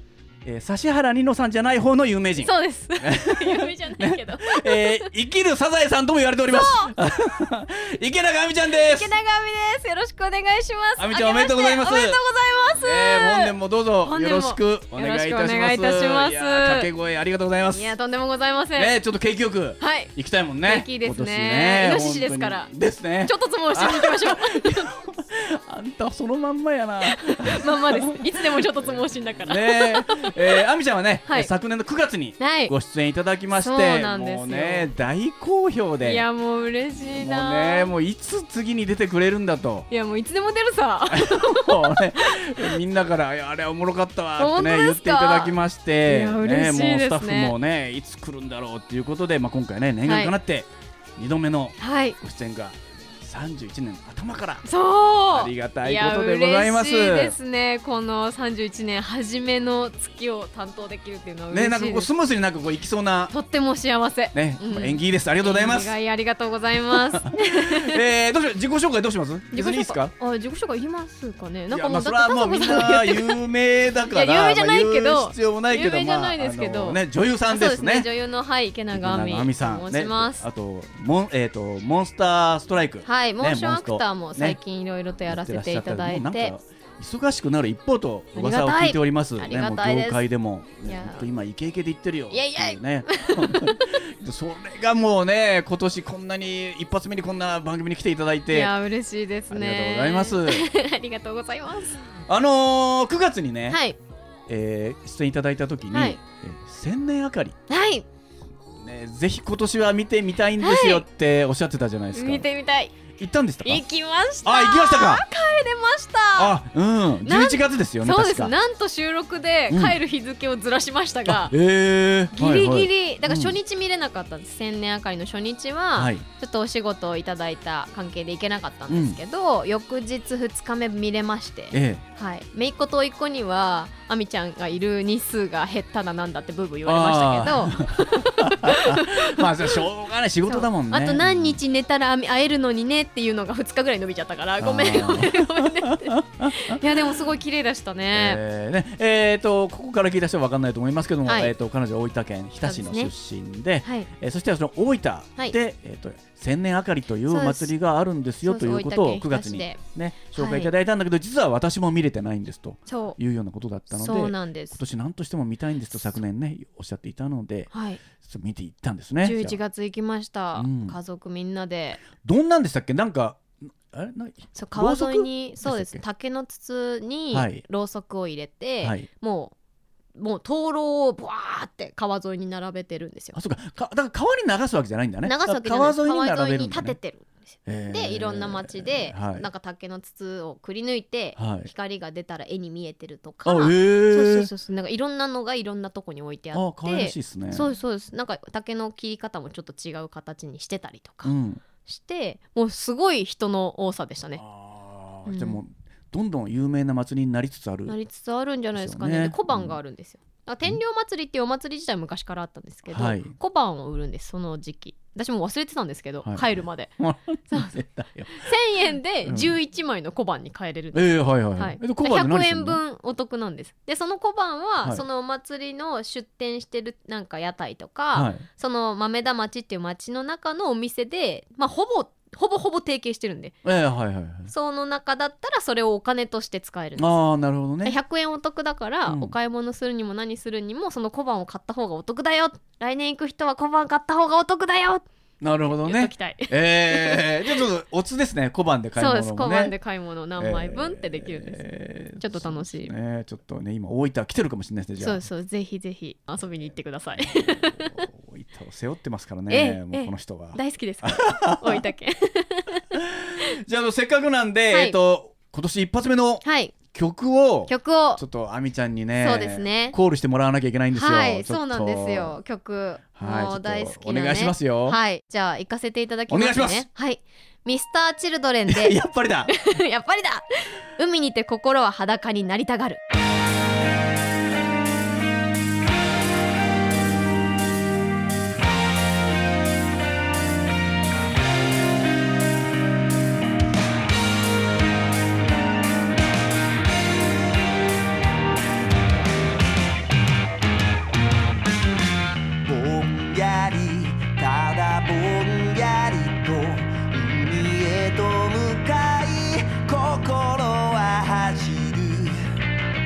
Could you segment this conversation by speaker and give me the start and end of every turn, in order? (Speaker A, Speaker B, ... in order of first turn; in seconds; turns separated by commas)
Speaker A: 0.5-9.1, Speaker B: 2.4-5.1, Speaker B: 6.5-6.9, Speaker B: 8.7-16.9, Speaker A: 11.0-12.2, Speaker A: 12.8-17.9, Speaker B: 17.7-18.9, Speaker A: 18.8-36.2, Speaker B: 19.8-22.7, Speaker B: 23.2-24.9, Speaker B: 27.0-30.6, Speaker B: 32.4-32.7, Speaker B: 33.6-34.9, Speaker B: 36.0-37.9, Speaker A: 37.2-39.9, Speaker B: 39.9-42.7, Speaker A: 41.1-54.7, Speaker B: 44.4-47.5, Speaker B: 50.0-50.4, Speaker B: 51.8-52.2, Speaker B: 54.6-62.1, Speaker A: 55.3-57.4, Speaker A: 61.5-63.3, Speaker B: 63.3-68.0, Speaker A: 64.3-65.9, Speaker A: 67.2-70.1, Speaker B: 69.5-73.4, Speaker A: 71.7-78.1, Speaker B: 74.1-80.5, Speaker A: 78.9-84.6, Speaker B: 83.0-86.5, Speaker A: 85.3-98.8, Speaker B: 88.3-90.2, Speaker B: 90.8-91.3, Speaker B: 92.3-93.8, Speaker B: 98.5-102.0, Speaker A: 99.5-100.7, Speaker A: 102.3-103.8, Speaker B: 103.7-104.0, Speaker A: 104.5-107.6, Speaker B: 105.9-106.2, Speaker B: 107.7-108.1, Speaker A: 108.8-112.5, Speaker B: 110.6-111.0, Speaker B: 112.1-113.0, Speaker A: 113.2-113.8, Speaker B: 113.6-116.6, Speaker A: 114.4-115.2, Speaker A: 116.4-118.5, Speaker B: 117.2-121.5, Speaker A: 119.7-120.0, Speaker A: 121.3-123.5, Speaker B: 122.3-139.8, Speaker A: 126.0-126.2, Speaker A: 128.9-129.2, Speaker A: 131.7-132.0, Speaker A: 136.9-141.6, Speaker B: 140.5-148.4, Speaker A: 144.6-147.1, Speaker A: 148.1-169.6, Speaker B: 151.3-151.5, Speaker B: 152.7-153.1, Speaker B: 153.8-154.1, Speaker B: 157.3-157.7, Speaker B: 158.4-159.8, Speaker B: 160.3-160.7, Speaker B: 162.9-163.2, Speaker B: 163.9-164.8, Speaker B: 167.7-168.0, Speaker B: 169.2-172.0, Speaker A: 170.6-171.0, Speaker A: 172.2-176.0, Speaker B: 174.6-179.6, Speaker A: 177.3-177.6, Speaker B: 180.2-183.4, Speaker A: 183.3-187.0, Speaker B: 185.2-201.3, Speaker A: 187.7-189.5, Speaker A: 191.4-191.7, Speaker A: 193.4-194.5, Speaker A: 196.5-197.7, Speaker A: 201.2-201.6, Speaker B: 201.8-204.4, Speaker A: 204.4-208.0, Speaker B: 205.2-205.6, Speaker B: 207.9-216.9, Speaker A: 208.8-209.8, Speaker A: 212.9-213.3, Speaker A: 217.0-218.5, Speaker B: 218.3-233.6, Speaker A: 219.2-219.5, Speaker A: 220.9-222.8, Speaker A: 228.1-228.5, Speaker A: 233.6-234.5, Speaker B: 234.5-237.1, Speaker A: 237.0-238.0, Speaker B: 237.8-245.1, Speaker A: 239.1-239.3, Speaker A: 245.4-249.8, Speaker B: 245.8-247.7, Speaker B: 249.0-252.9, Speaker A: 250.4-255.2, Speaker B: 255.0-258.1, Speaker A: 257.3-261.9, Speaker B: 259.5-262.9, Speaker A: 262.9-272.4, Speaker B: 264.7-265.0, Speaker B: 266.4-266.8, Speaker B: 267.7-268.2, Speaker B: 269.2-270.0, Speaker B: 270.9-279.0, Speaker A: 273.2-275.0, Speaker A: 276.3-276.9, Speaker A: 278.7-279.5, Speaker B: 279.5-283.0, Speaker C: 302.6-312.6